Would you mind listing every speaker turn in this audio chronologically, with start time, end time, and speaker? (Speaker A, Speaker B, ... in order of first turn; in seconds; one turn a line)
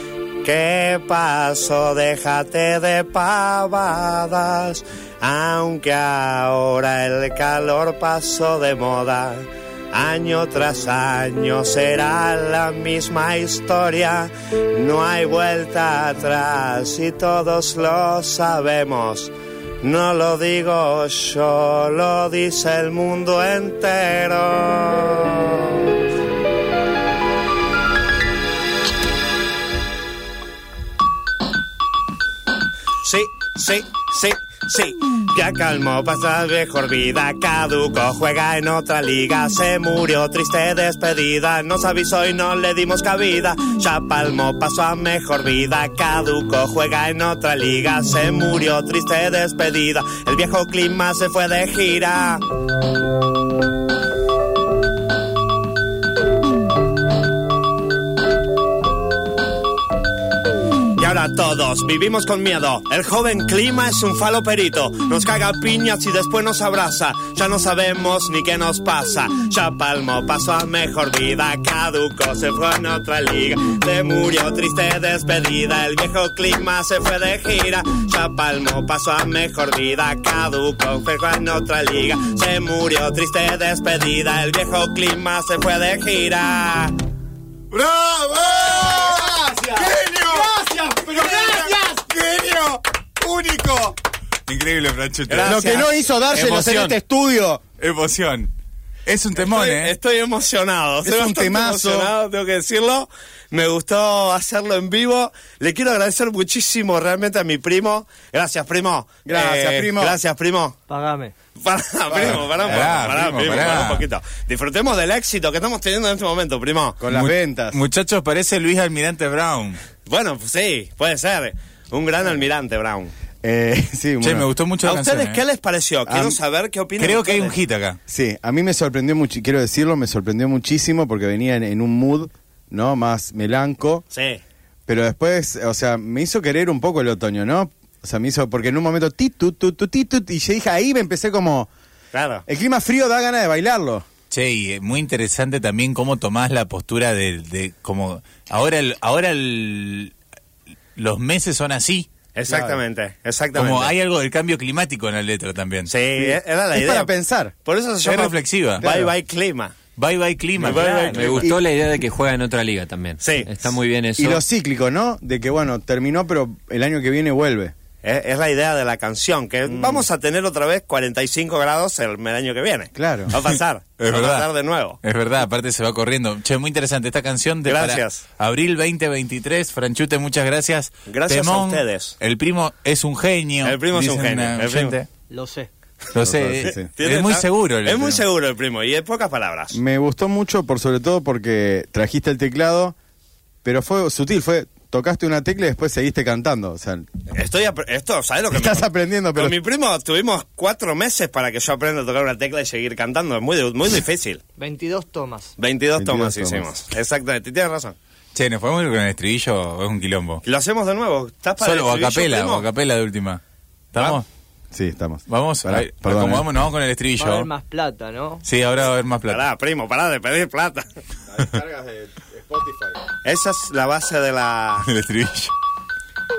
Speaker A: 0.4-25.7
Speaker A: 33.0-52.4
Speaker A: 61.0-86.9
Speaker B: 87.7-90.5
Speaker C: 88.7-92.1
Speaker B: 91.1-93.9
Speaker B: 94.5-95.8
Speaker A: 95.3-95.9
Speaker C: 95.4-97.6
Speaker B: 96.3-97.0
Speaker B: 97.8-98.5
Speaker B: 99.0-99.9
Speaker A: 99.3-110.7
Speaker C: 101.0-102.1
Speaker C: 109.2-110.2
Speaker D: 110.9-111.3
Speaker A: 111.6-117.0
Speaker C: 112.1-113.1
Speaker B: 112.2-114.0
Speaker C: 117.0-117.8
Speaker B: 117.1-119.8
Speaker A: 120.0-123.1
Speaker C: 123.4-124.5
Speaker B: 124.2-125.4
Speaker A: 124.8-127.6
Speaker C: 126.0-126.4
Speaker B: 127.0-128.0
Speaker C: 128.1-134.0
Speaker A: 134.1-134.4
Speaker C: 134.9-141.7
Speaker A: 142.1-142.4
Speaker C: 142.4-144.0
Speaker B: 144.3-150.1
Speaker B: 150.9-152.1
Speaker A: 152.3-153.9
Speaker C: 152.5-152.8
Speaker B: 153.5-155.9
Speaker A: 155.9-157.1
Speaker C: 156.2-157.5
Speaker A: 157.6-159.7
Speaker B: 158.0-158.8
Speaker C: 158.8-159.1
Speaker B: 159.9-161.5
Speaker A: 160.6-161.5
Speaker E: 160.7-164.4
Speaker C: 160.9-161.6
Speaker A: 163.2-163.6
Speaker C: 164.2-167.7
Speaker A: 168.0-175.0
Speaker C: 169.7-170.1
Speaker C: 172.9-173.3
Speaker B: 173.4-174.5
Speaker B: 175.0-185.1
Speaker A: 177.6-178.2
Speaker A: 181.1-182.2
Speaker A: 183.6-185.0
Speaker D: 185.3-185.7
Speaker B: 186.1-188.2
Speaker C: 186.2-186.9
Speaker A: 186.7-189.8
Speaker C: 189.7-192.9
Speaker C: 193.6-197.1
Speaker A: 197.3-204.4
Speaker C: 198.5-199.6
Speaker D: 204.6-205.5
Speaker A: 205.6-208.0
Speaker C: 205.9-206.7
Speaker B: 208.3-210.4
Speaker A: 210.4-212.7
Speaker B: 211.6-213.4
Speaker B: 213.9-214.2
Speaker C: 214.7-216.5
Speaker B: 215.3-217.5
Speaker D: 217.2-218.4
Speaker B: 218.4-219.4
Speaker A: 219.3-220.9
Speaker C: 221.3-223.0
Speaker A: 223.2-224.9
Speaker B: 224.8-225.5